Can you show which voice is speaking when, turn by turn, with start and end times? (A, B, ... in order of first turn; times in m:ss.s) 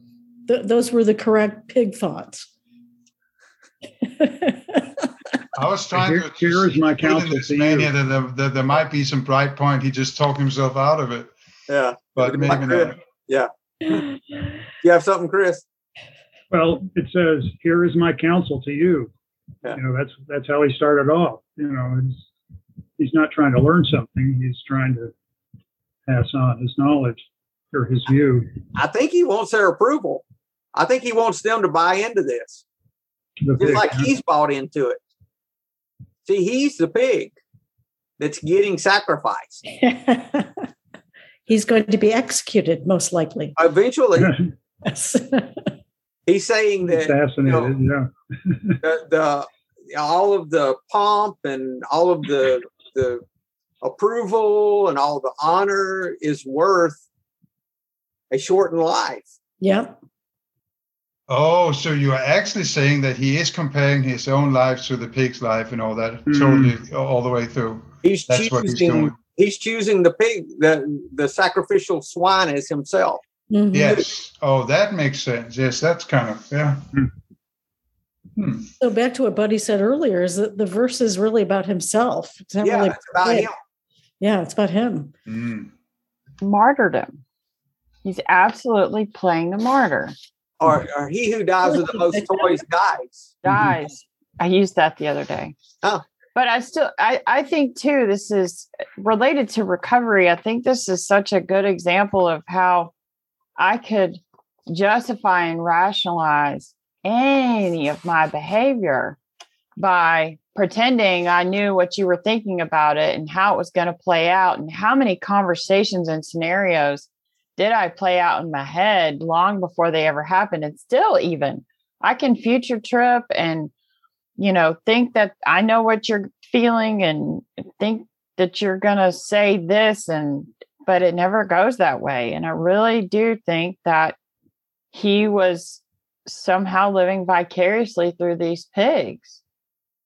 0:00.5-0:02.5 A
0:04.0-0:04.9 A
0:05.6-0:11.3 B
0:05.9-0:07.9 C
0:11.7-0:14.1 D
0:12.2-0:13.0 B
0:14.8-0:15.6 D
0:16.5-0:19.1 C
0:19.7-0:22.3 C
0:23.0-0:25.1 C
0:26.1-0:28.5 C
0:28.8-0:32.6 D
0:33.4-0:34.1 C
0:33.6-0:35.0 D
0:36.3-0:37.4 D
0:38.2-0:39.6 D
0:39.7-0:40.6 A
0:41.5-0:43.6 A
0:43.6-0:44.4 D
0:44.2-0:44.5 C
0:44.9-0:45.7 A
0:46.3-0:47.7 D
0:46.9-0:48.8 C
0:48.8-0:53.2 D
0:53.8-0:57.0 D
0:58.3-0:59.3 D
0:59.6-1:00.0 A
1:01.3-1:09.2 B
1:06.3-1:06.8 C
1:08.0-1:13.2 D
1:13.5-1:14.0 A
1:13.7-1:16.9 B
1:18.4-1:18.7 B
1:18.8-1:23.5 A
1:22.6-1:23.6 D
1:24.2-1:25.1 A
1:25.3-1:25.7 B
1:26.4-1:27.2 E
1:28.0-1:30.2 E
1:30.6-1:33.4 D
1:31.6-1:32.6 A
1:33.4-1:35.6 E
1:33.5-1:33.7 C
1:36.4-1:42.9 E
1:43.6-1:49.2 E
1:49.8-2:03.7 E
2:04.4-2:14.2 E
2:14.9-2:19.4 E